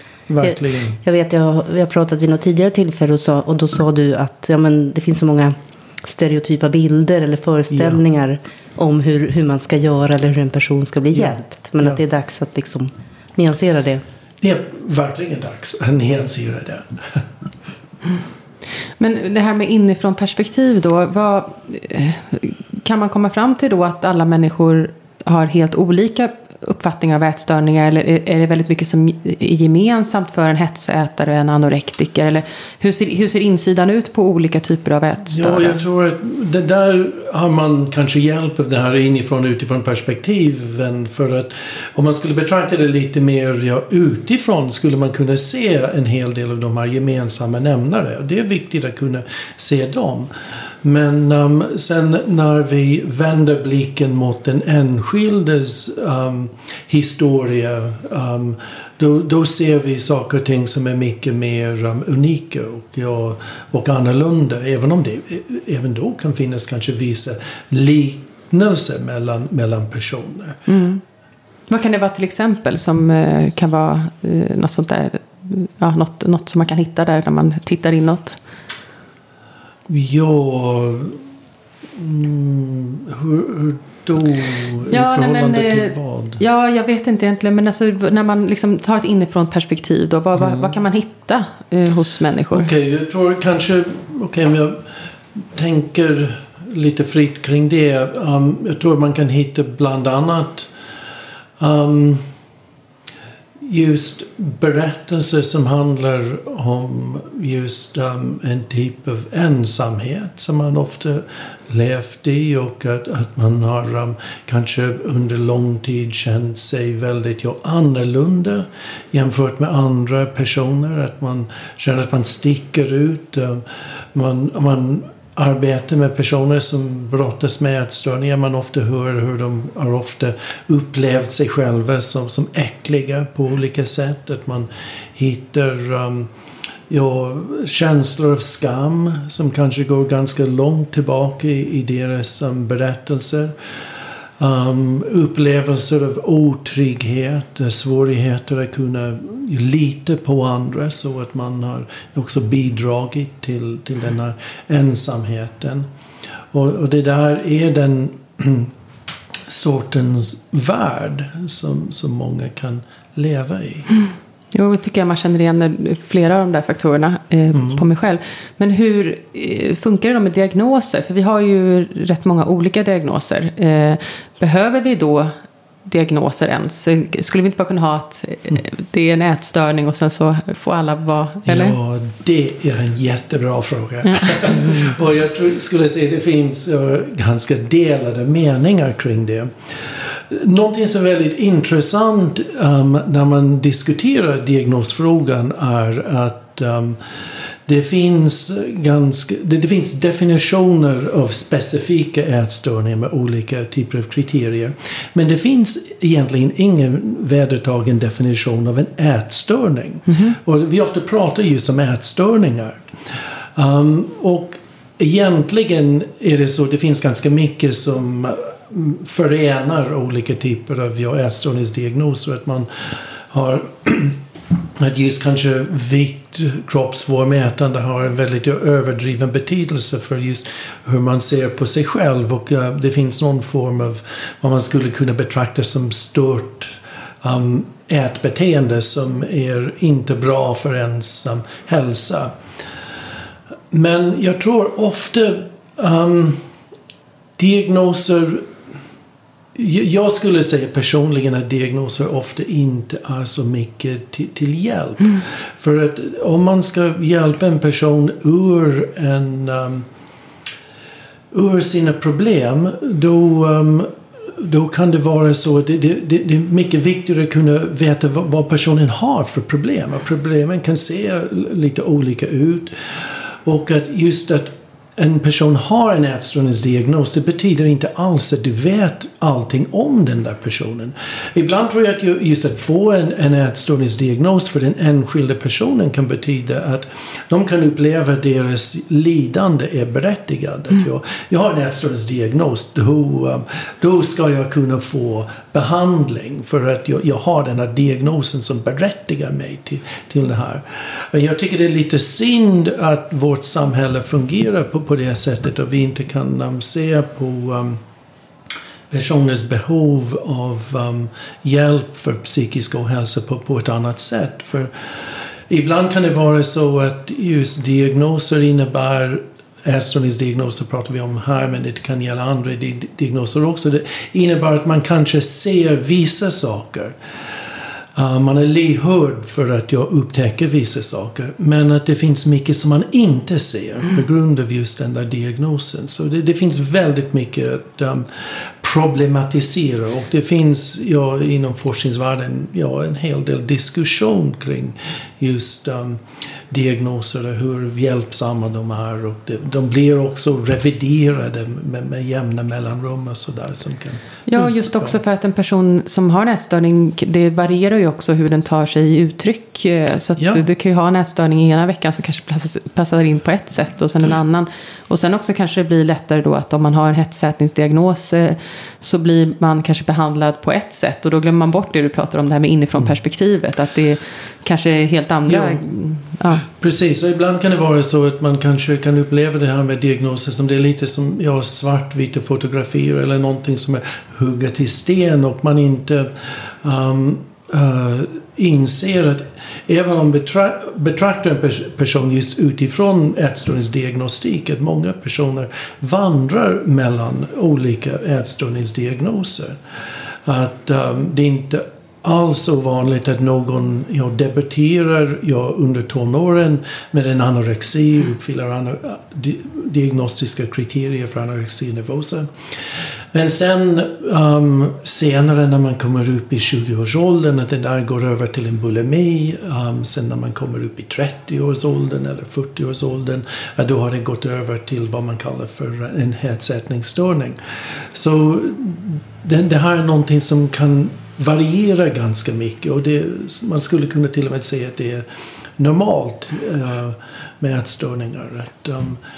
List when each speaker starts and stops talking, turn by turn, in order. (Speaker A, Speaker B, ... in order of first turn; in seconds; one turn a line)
Speaker A: 0.3-1.0
Speaker B: 0.4-14.0
Speaker A: 7.7-8.0
Speaker A: 11.1-12.0
Speaker A: 14.4-17.2
Speaker C: 19.0-35.8
Speaker A: 35.3-50.3
Speaker A: 50.8-70.6
Speaker C: 70.7-71.0
Speaker C: 71.7-78.4
Speaker A: 79.9-81.2
Speaker A: 81.9-86.4
Speaker C: 84.9-92.7
Speaker A: 90.4-90.8
Speaker A: 92.5-100.7
Speaker A: 101.6-102.2
Speaker A: 103.6-136.3
Speaker A: 136.9-143.5
Speaker A: 144.4-155.9
Speaker A: 156.5-158.7
Speaker A: 159.5-163.9
Speaker C: 164.5-175.3
Speaker A: 167.5-167.8
Speaker C: 175.8-181.8
Speaker A: 181.4-197.0
Speaker C: 184.2-184.6
Speaker A: 197.6-212.8
Speaker C: 210.1-210.4
Speaker A: 213.5-224.2
Speaker A: 224.8-242.3
Speaker A: 243.7-246.5
Speaker A: 247.4-248.5
Speaker A: 249.5-259.9
Speaker A: 261.3-307.8
Speaker A: 308.9-326.9
Speaker A: 327.9-355.0
Speaker C: 354.3-376.4
Speaker A: 360.2-360.4
Speaker A: 375.2-375.6
Speaker A: 376.6-399.6
Speaker A: 400.2-427.4
Speaker A: 427.9-435.1
Speaker A: 435.6-439.0